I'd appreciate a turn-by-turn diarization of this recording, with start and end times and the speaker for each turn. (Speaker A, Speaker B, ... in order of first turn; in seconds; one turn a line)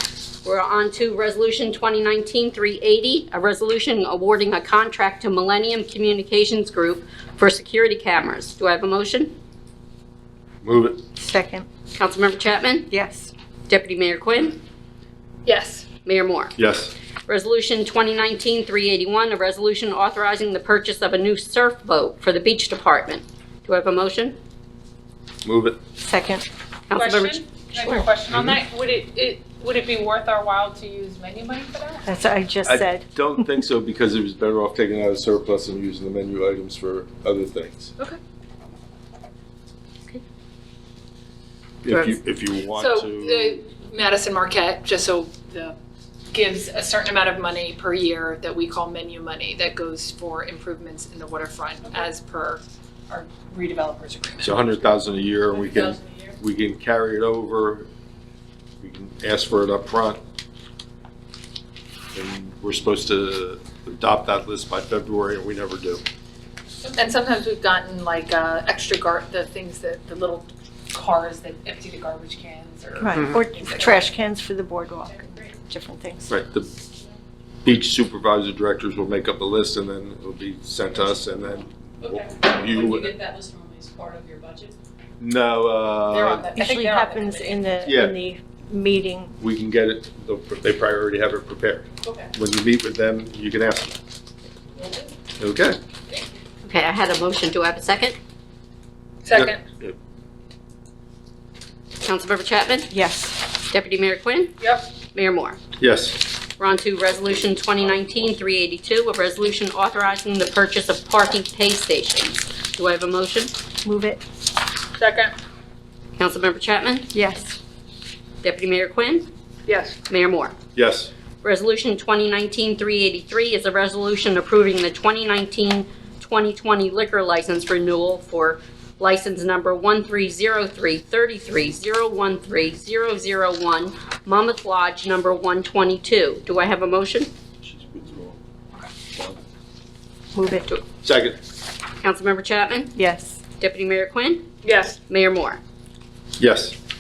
Speaker A: 0.5-9.3
Speaker B: 10.6-11.0
Speaker C: 11.2-11.7
Speaker A: 11.9-12.9
Speaker C: 12.9-13.3
Speaker A: 13.7-14.6
Speaker D: 15.5-15.9
Speaker A: 16.1-16.6
Speaker B: 16.6-16.9
Speaker A: 17.3-24.4
Speaker B: 25.4-25.8
Speaker C: 26.0-26.4
Speaker A: 26.9-28.1
Speaker D: 26.9-32.1
Speaker C: 32.1-33.1
Speaker B: 32.6-37.9
Speaker B: 41.8-43.6
Speaker A: 41.9-42.2
Speaker D: 42.7-45.8
Speaker D: 46.3-54.8
Speaker B: 54.4-57.9
Speaker E: 55.5-56.1
Speaker B: 58.8-60.2
Speaker B: 62.1-66.0
Speaker D: 66.9-74.0
Speaker C: 73.0-75.1
Speaker E: 75.2-75.6
Speaker C: 75.7-76.3
Speaker B: 76.3-76.7
Speaker B: 77.6-83.2
Speaker E: 82.0-84.8
Speaker B: 85.2-86.5
Speaker D: 86.1-87.7
Speaker C: 86.6-89.3
Speaker B: 87.8-88.2
Speaker B: 89.4-94.0
Speaker E: 92.0-92.3
Speaker E: 94.8-95.0
Speaker B: 95.4-95.8
Speaker A: 96.6-98.2
Speaker D: 99.2-99.6
Speaker B: 99.3-100.0
Speaker A: 102.0-102.9
Speaker C: 102.9-103.3
Speaker A: 103.6-104.5
Speaker D: 104.6-104.8
Speaker A: 105.1-105.6
Speaker B: 105.8-106.2
Speaker A: 106.6-113.5
Speaker C: 113.8-114.2
Speaker D: 115.0-115.4
Speaker A: 116.2-117.1
Speaker C: 117.1-117.5
Speaker A: 118.4-119.3
Speaker D: 119.7-120.0
Speaker A: 120.1-120.6
Speaker B: 120.8-121.1
Speaker A: 121.4-137.3
Speaker B: 137.6-138.4
Speaker C: 140.3-140.7
Speaker B: 141.0-141.4
Speaker A: 142.0-142.9
Speaker C: 143.0-143.4
Speaker A: 143.6-144.4
Speaker D: 144.6-145.0
Speaker A: 145.1-145.6
Speaker B: 146.4-146.8